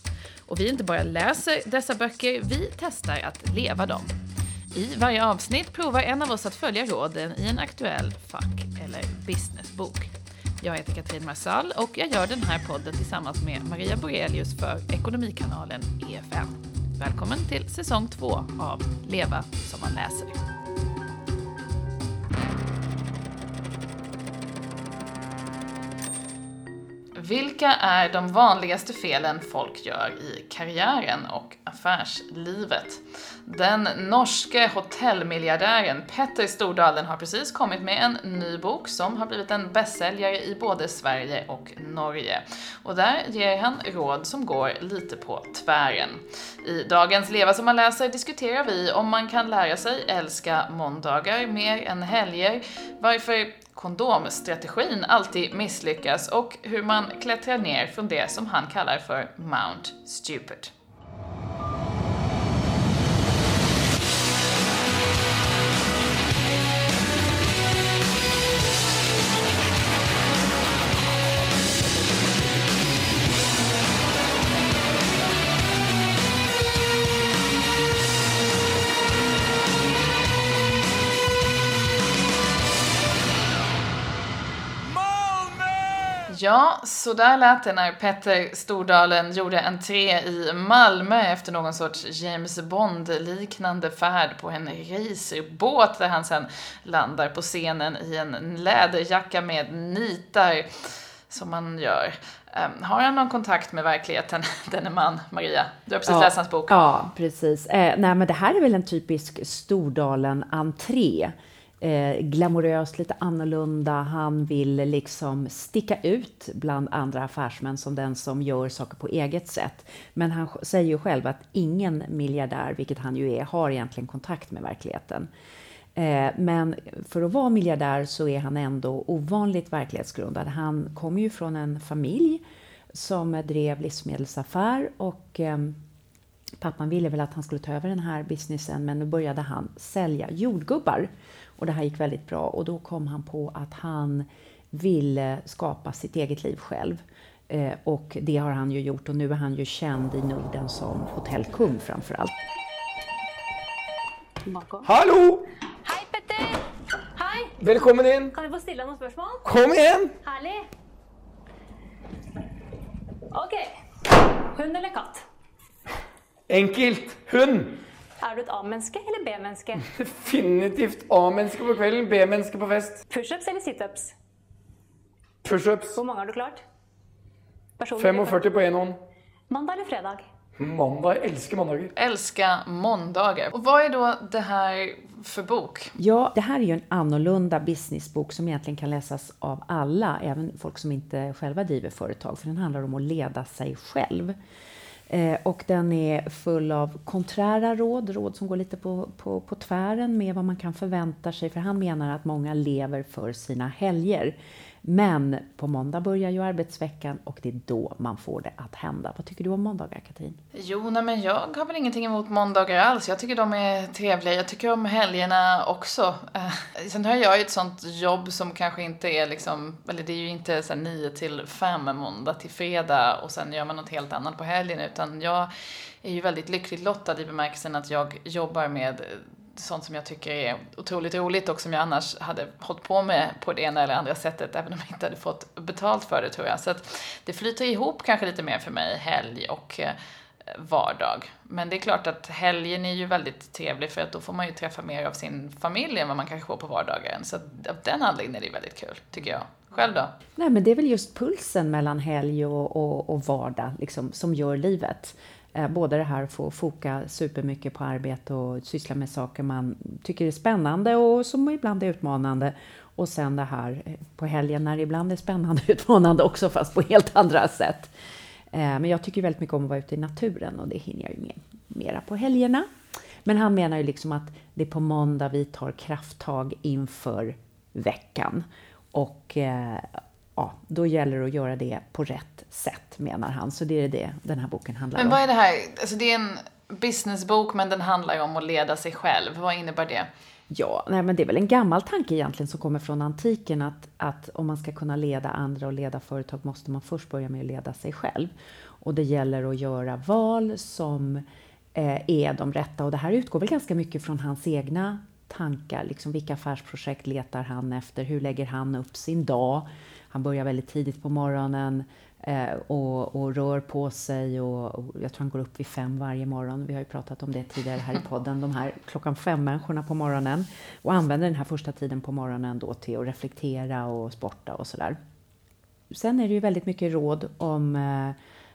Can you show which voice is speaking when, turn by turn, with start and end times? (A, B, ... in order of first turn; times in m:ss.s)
0:00.5-0:04.1 A
0:04.7-0:20.4 A
0:27.1-1:00.7 A
1:26.3-1:46.8 A
1:46.0-2:05.3 B
2:05.9-2:15.8 B
2:16.6-2:32.3 B
2:34.4-2:34.8 C
2:34.8-2:35.4 D
2:35.8-2:37.6 C
2:37.6-2:38.3 D
2:38.3-2:39.5 C
2:39.4-2:40.1 D
2:40.2-2:40.7 C
2:43.3-2:43.7 C
2:44.5-2:45.2 C
2:46.5-2:47.8 D
2:48.2-2:49.9 C
2:49.9-2:53.0 D
2:53.1-2:54.1 C
2:55.4-2:56.0 D
2:55.9-2:56.6 C
2:57.8-2:58.5 C
2:58.0-2:59.0 D
2:59.5-3:00.2 C
3:00.6-3:01.9 D
3:01.9-3:05.9 A
3:06.0-3:14.4 B
3:15.1-3:30.4 B
3:30.5-3:45.5 A
3:46.0-3:59.9 A
4:00.5-4:10.1 A
4:10.4-4:27.9 B
4:28.5-4:32.7 B
4:33.2-4:45.2 B
4:45.0-4:50.1 A
4:50.5-5:25.0 B
5:25.9-5:28.2 B